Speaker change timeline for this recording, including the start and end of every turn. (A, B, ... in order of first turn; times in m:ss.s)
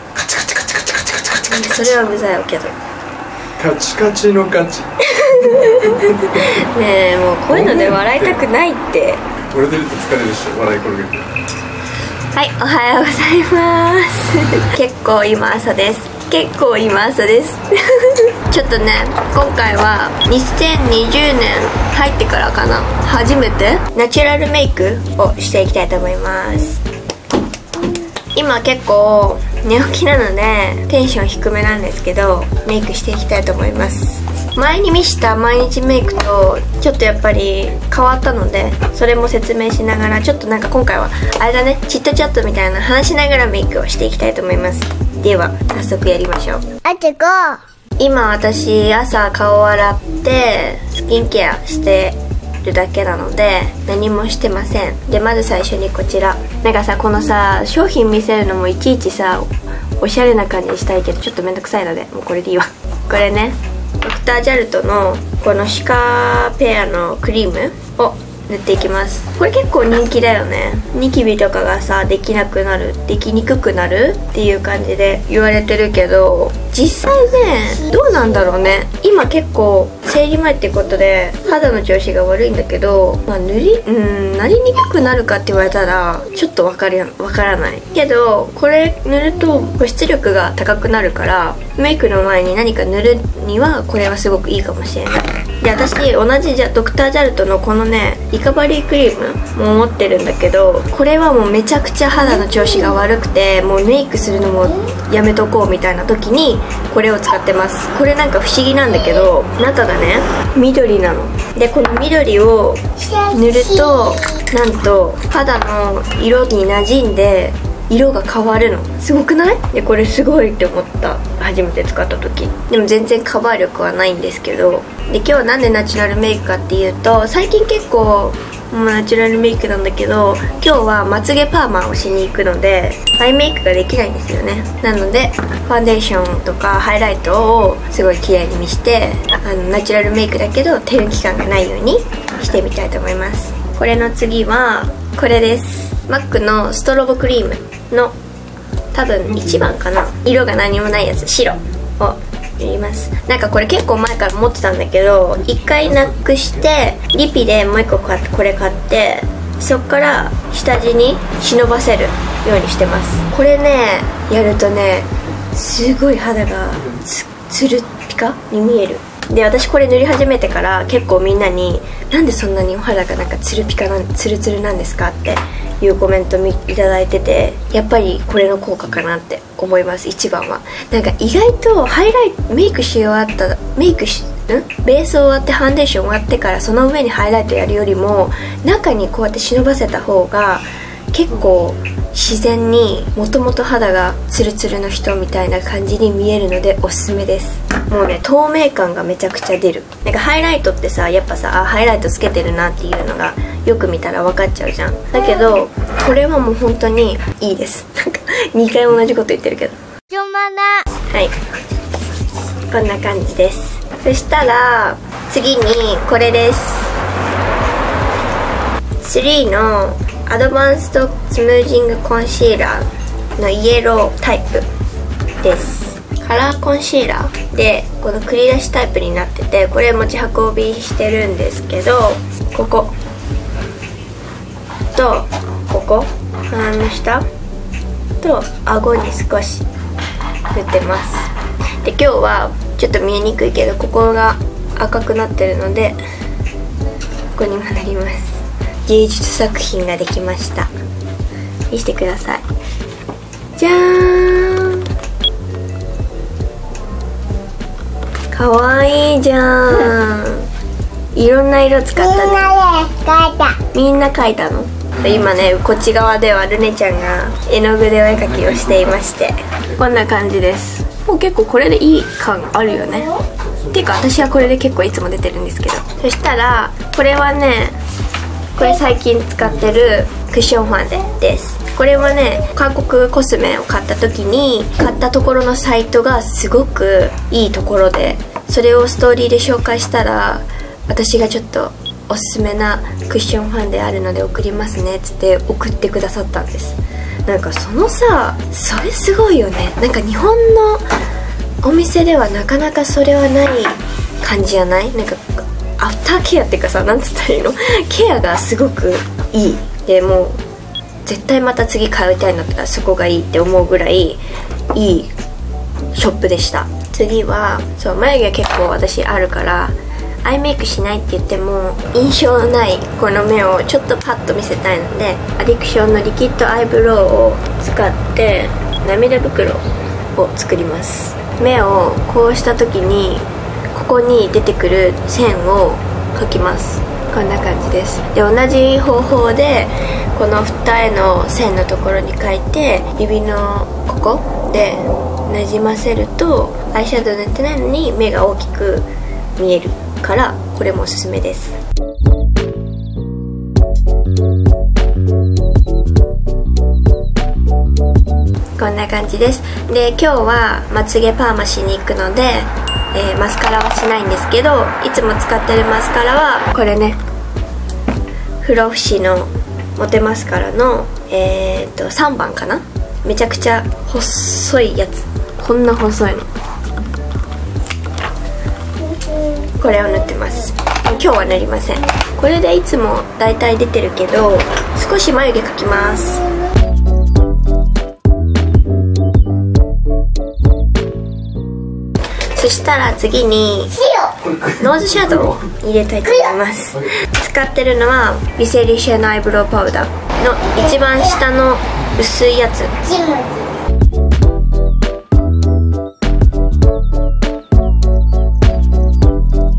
0:00.2-0:01.5 A
0:01.4-0:02.8 B
0:03.6-0:06.2 A
0:05.0-0:09.2 B
0:07.5-0:08.4 A
0:09.5-0:11.3 A
0:12.3-0:26.8 B
0:28.3-0:46.6 B
0:46.8-0:47.6 C
0:48.0-2:28.2 B
1:53.1-1:54.2 C
2:28.9-3:29.8 B
3:30.1-3:30.8 C
3:31.1-3:31.3 B
3:32.7-3:37.0 B
3:39.0-3:44.7 B
3:45.4-3:53.0 B
3:55.0-3:57.2 B
3:58.2-3:59.7 B
4:00.5-4:01.3 B
4:01.8-4:06.0 B
4:07.3-4:10.7 B
4:11.7-4:12.5 B
4:13.6-4:14.8 B
4:18.3-4:20.5 B
4:21.1-4:22.6 B
4:22.0-4:23.6 C
4:23.7-4:37.8 B
4:38.5-5:00.8 B
5:01.6-5:10.4 B
5:11.0-5:14.2 B
5:14.7-5:15.1 B
5:15.9-5:51.6 B
5:58.6-6:07.0 B
6:08.4-6:16.3 B
6:18.9-6:19.2 C
6:19.6-6:26.3 B
6:32.3-6:33.8 B
6:34.4-6:42.8 B
6:42.8-6:43.5 C